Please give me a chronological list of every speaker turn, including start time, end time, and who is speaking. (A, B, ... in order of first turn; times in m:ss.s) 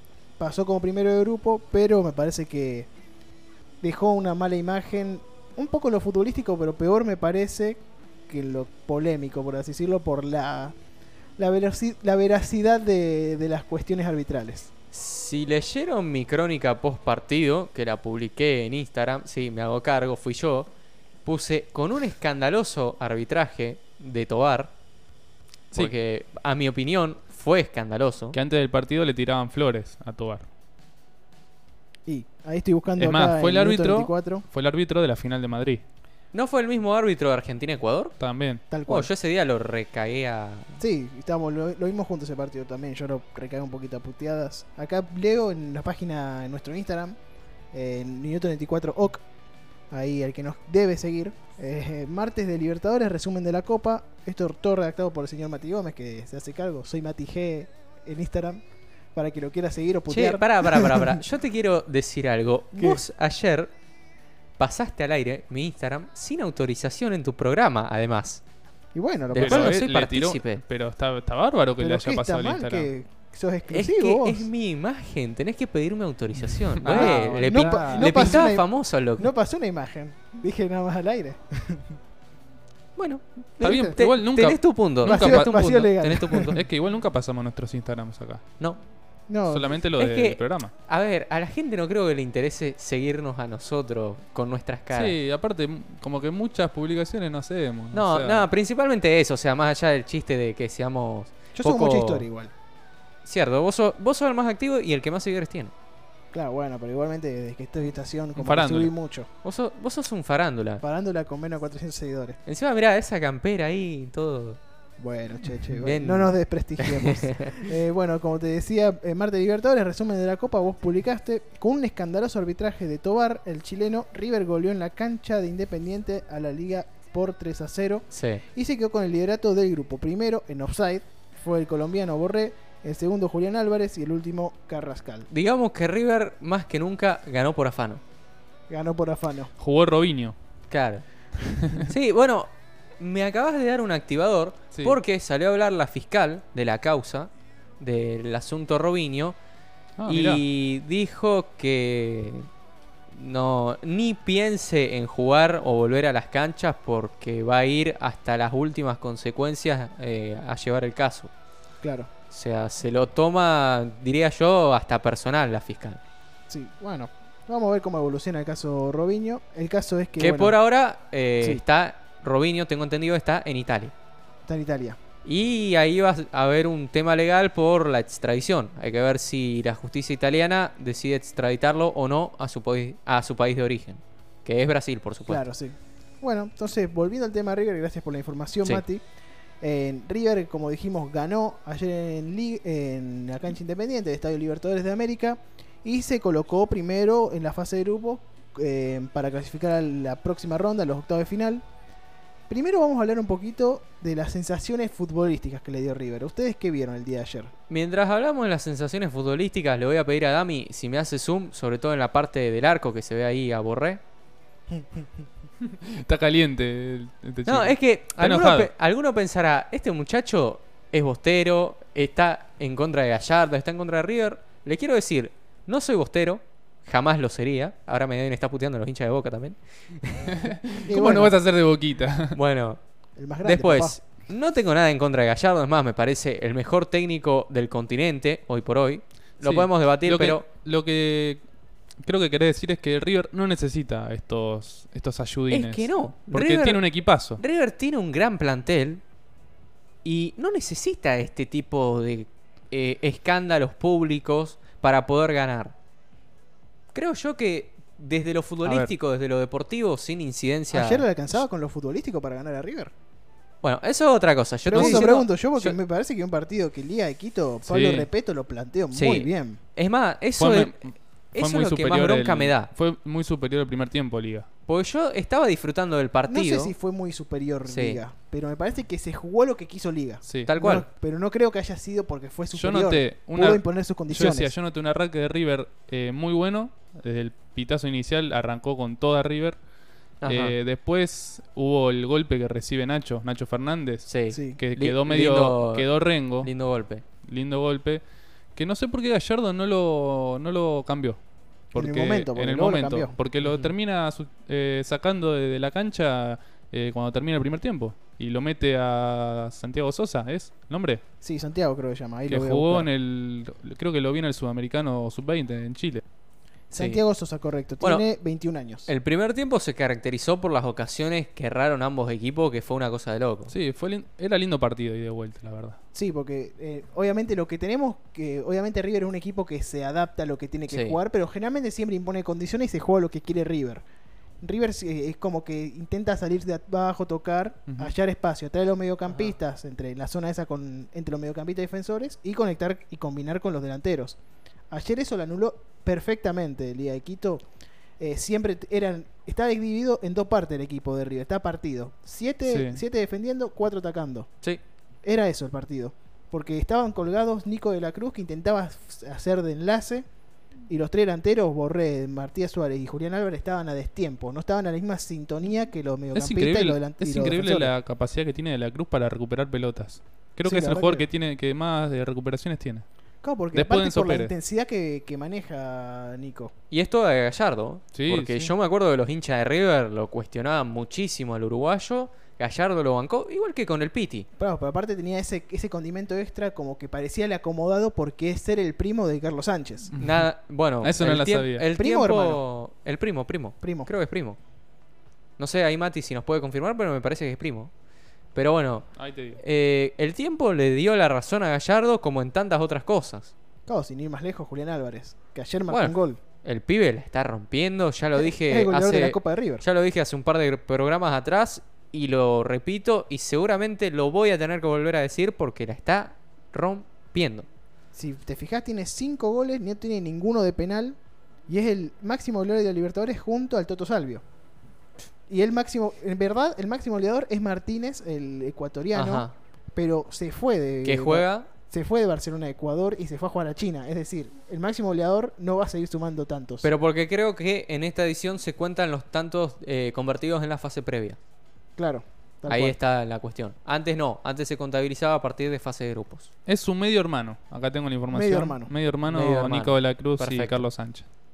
0:00.4-0:02.9 A
0:03.8-0:10.8 A
0:11.4-0:14.7 A
0:14.9-0:20.7 B
0:21.2-0:24.7 B
0:25.7-0:28.4 B
0:28.3-0:30.5 C
0:32.0-0:34.4 A
0:33.0-0:35.8 C
0:36.3-0:38.1 B
0:38.2-0:38.6 C
0:38.7-0:39.1 A
0:38.9-0:40.8 B
0:40.8-0:47.2 A
0:47.7-0:49.2 A
0:49.9-0:58.6 A
0:59.1-1:01.2 A
1:00.1-1:03.7 B
1:02.7-1:03.0 A
1:04.6-1:08.4 B
1:08.9-1:09.8 A
1:09.3-1:12.9 C
1:09.3-1:10.6 B
1:11.8-1:14.5 A
1:13.7-1:19.3 B
1:16.8-1:18.4 C
1:16.8-1:18.6 A
1:19.2-1:22.0 A
1:23.0-1:26.6 B
1:23.6-1:28.4 C
1:23.6-1:24.0 A
1:25.0-1:26.6 A
1:29.3-1:29.8 A
1:29.5-1:30.7 C
1:30.0-1:35.1 B
1:34.9-1:38.5 C
1:37.9-1:42.3 B
1:41.5-1:42.5 A
1:43.2-1:45.7 B
1:46.3-1:49.3 A
1:48.4-1:48.9 C
1:49.4-1:50.8 B
1:50.8-1:52.4 A
1:52.5-1:54.6 B
1:55.0-2:15.3 A
1:55.8-1:57.7 B
2:08.1-2:08.4 B
2:15.3-2:18.0 B
2:18.7-2:19.5 A
2:19.6-2:20.4 C
2:20.7-2:21.0 B
2:21.6-2:21.9 C
2:21.9-2:29.4 B
2:24.7-2:25.0 C
2:30.0-2:30.4 C
2:30.1-2:32.5 B
2:33.1-2:41.3 B
2:41.8-2:42.1 A
2:42.3-2:46.0 B
2:46.5-2:50.6 A
2:50.2-2:53.9 B
2:54.4-2:55.0 A
2:55.2-3:05.4 B
3:05.3-3:09.0 A
3:09.6-3:21.6 A
3:22.5-3:27.5 A
3:27.7-3:34.0 B
3:34.7-3:35.0 A
3:35.7-3:38.7 C
3:37.4-3:50.3 B
3:50.2-3:52.4 C
3:50.8-3:51.4 A
3:52.3-3:52.8 B
3:53.2-3:54.0 A
3:53.4-4:00.4 B
3:59.4-4:01.4 C
4:02.0-4:07.4 C
4:05.5-4:09.0 B
4:10.0-4:15.7 B
4:16.9-4:21.4 B
4:18.6-4:18.9 C
4:20.7-4:22.9 A
4:23.6-4:25.8 B
4:24.6-4:29.6 A
4:24.7-4:25.1 C
4:27.6-4:28.1 C
4:28.9-4:30.8 B
4:30.4-4:34.5 C
4:31.3-4:32.7 B
4:34.7-4:36.7 B
4:36.3-4:44.5 A
4:37.6-4:38.0 B
4:40.2-4:40.5 C
4:40.5-4:40.9 B
4:42.5-4:49.6 C
4:50.2-4:50.6 B
4:50.2-4:56.5 C
4:54.0-4:57.0 B
4:54.3-4:54.6 A
4:57.2-4:58.0 C
4:58.5-5:01.2 C
5:01.7-5:11.0 C
5:01.7-5:03.1 A
5:03.4-5:03.7 B
5:11.2-5:12.9 A
5:12.3-5:16.0 C
5:16.7-5:18.9 A
5:17.8-5:18.0 B
5:18.8-5:23.5 B
5:23.5-5:25.8 C
5:25.9-5:33.8 A
5:30.7-5:31.0 B
5:34.4-5:44.2 A
5:44.7-5:47.4 A
5:48.0-5:54.3 A
5:52.4-5:52.8 C
5:55.0-6:00.0 A
6:00.7-6:07.7 A
6:06.1-6:12.8 C
6:10.4-6:11.0 A
6:13.2-6:16.5 A
6:13.5-6:14.3 C
6:16.7-6:24.3 B
6:17.9-6:18.5 C
6:24.4-6:29.9 A
6:29.9-6:30.3 C
6:30.0-6:34.4 B
6:30.8-6:31.7 C
6:31.8-6:32.4 A
6:33.6-6:33.9 A
6:35.4-6:37.7 B
6:38.3-6:43.3 B
6:39.0-6:39.4 C
6:43.6-6:46.2 A
6:45.7-6:57.4 B
6:48.2-6:49.6 A
6:57.9-7:04.2 A
7:05.3-7:16.7 A
7:08.9-7:09.3 B
7:10.8-7:11.5 B
7:16.6-7:21.2 B
7:21.8-7:22.8 A
7:22.5-7:26.3 B
7:26.4-7:31.0 C
7:28.1-7:28.7 A
7:29.0-7:30.6 B